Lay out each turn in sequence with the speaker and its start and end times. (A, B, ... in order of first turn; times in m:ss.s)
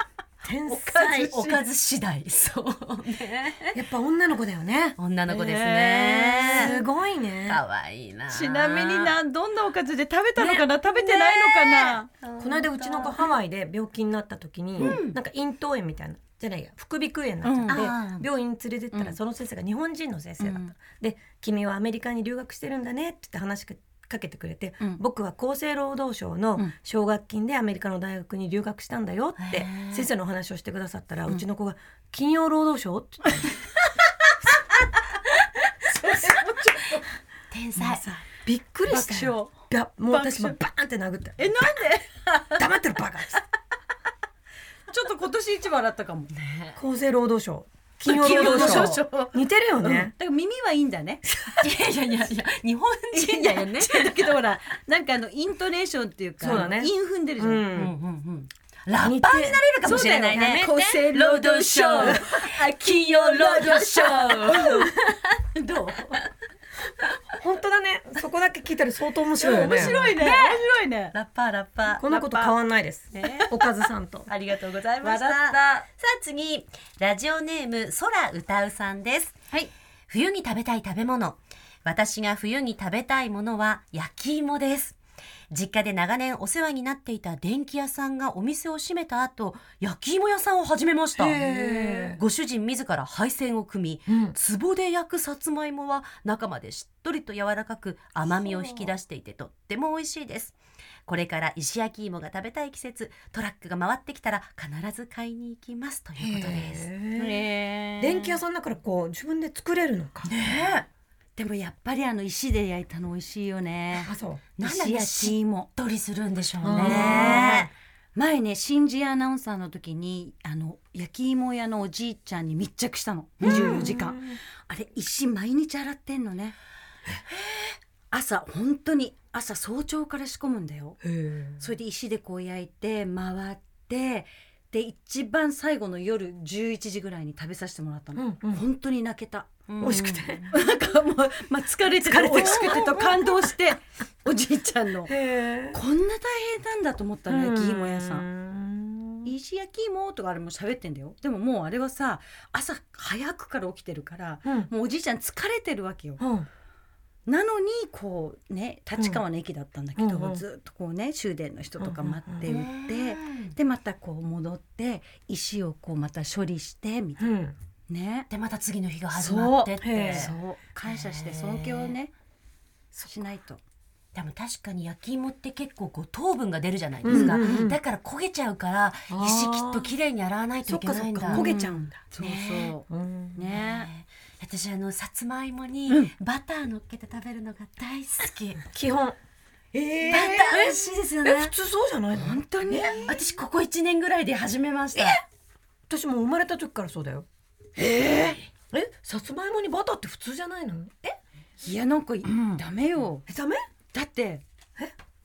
0:00.4-0:01.5 A
0:00.7-0:01.6 B
0:00.9-0:03.8 C
0:03.7-0:05.0 A
0:05.0-0:06.8 C
0:05.3-0:06.8 B
0:06.6-0:07.6 A
0:07.4-0:09.2 C
0:08.3-0:12.1 B
0:10.4-0:33.4 A
0:11.8-0:13.2 C
0:14.8-0:15.2 C
0:17.4-0:17.9 B
0:17.7-0:18.3 C
0:18.9-0:19.2 B
0:20.4-0:20.7 B
0:29.4-0:30.1 C
0:35.9-0:37.0 B
0:37.5-0:38.1 C
0:37.8-0:41.5 A
0:38.9-0:40.6 B
0:41.4-0:42.7 B
0:42.6-0:43.4 A
0:44.9-0:46.3 B
0:46.3-0:46.8 C
0:46.8-0:50.1 A
0:48.0-0:49.1 C
0:48.0-0:51.2 B
0:51.6-0:54.3 C
0:53.1-0:57.7 B
0:56.4-0:57.9 A
0:57.7-1:06.2 C
0:59.0-1:01.0 A
0:59.8-1:04.9 B
1:05.5-1:06.2 B
1:07.3-1:09.9 A
1:09.4-1:11.2 B
1:09.4-1:12.1 C
1:12.0-1:14.3 A
1:12.0-1:12.5 B
1:13.2-1:13.5 B
1:14.3-1:19.4 C
1:15.0-1:15.8 B
1:20.1-1:25.0 C
1:25.5-1:46.9 C
1:31.2-1:32.2 A
1:34.1-1:34.3 A
1:46.2-1:47.4 A
1:47.2-1:48.4 B
1:48.0-1:50.3 A
1:50.2-1:50.9 C
1:51.4-1:55.7 B
1:54.0-1:54.4 A
1:54.6-1:57.7 C
1:56.6-1:57.7 A
1:56.7-2:06.6 B
2:03.4-2:03.9 C
2:03.4-2:04.4 A
2:07.3-2:07.7 C
2:08.1-2:11.0 B
2:11.0-2:11.6 A
2:11.6-2:25.1 B
2:18.1-2:18.6 A
2:19.8-2:20.3 C
2:19.8-2:20.6 A
2:22.0-2:23.6 A
2:22.3-2:22.9 C
2:25.1-2:25.8 A
2:25.7-2:28.2 B
2:27.3-2:29.3 A
2:29.2-2:36.2 B
2:34.4-2:34.7 A
2:36.2-2:36.5 A
2:37.2-2:47.3 B
2:40.0-2:40.4 A
2:41.8-2:42.5 A
2:42.4-2:43.6 C
2:47.2-2:47.6 A
2:47.9-2:48.3 B
2:48.3-2:51.9 C
2:49.1-2:52.1 B
2:49.8-2:50.3 A
2:52.9-2:53.6 B
2:54.1-3:01.4 C
2:57.0-2:57.8 A
2:57.1-2:57.6 B
2:59.1-2:59.9 A
3:00.7-3:02.0 A
3:01.3-3:03.9 B
3:02.2-3:02.7 C
3:02.9-3:03.4 A
3:03.5-3:08.6 C
3:08.6-3:09.2 A
3:09.7-3:13.0 A
3:10.0-3:11.5 C
3:12.1-3:13.1 B
3:13.1-3:15.2 C
3:14.9-3:15.2 A
3:15.9-3:17.2 A
3:17.8-3:21.2 A
3:21.6-3:23.2 B
3:23.3-3:23.6 A
3:23.9-3:24.4 B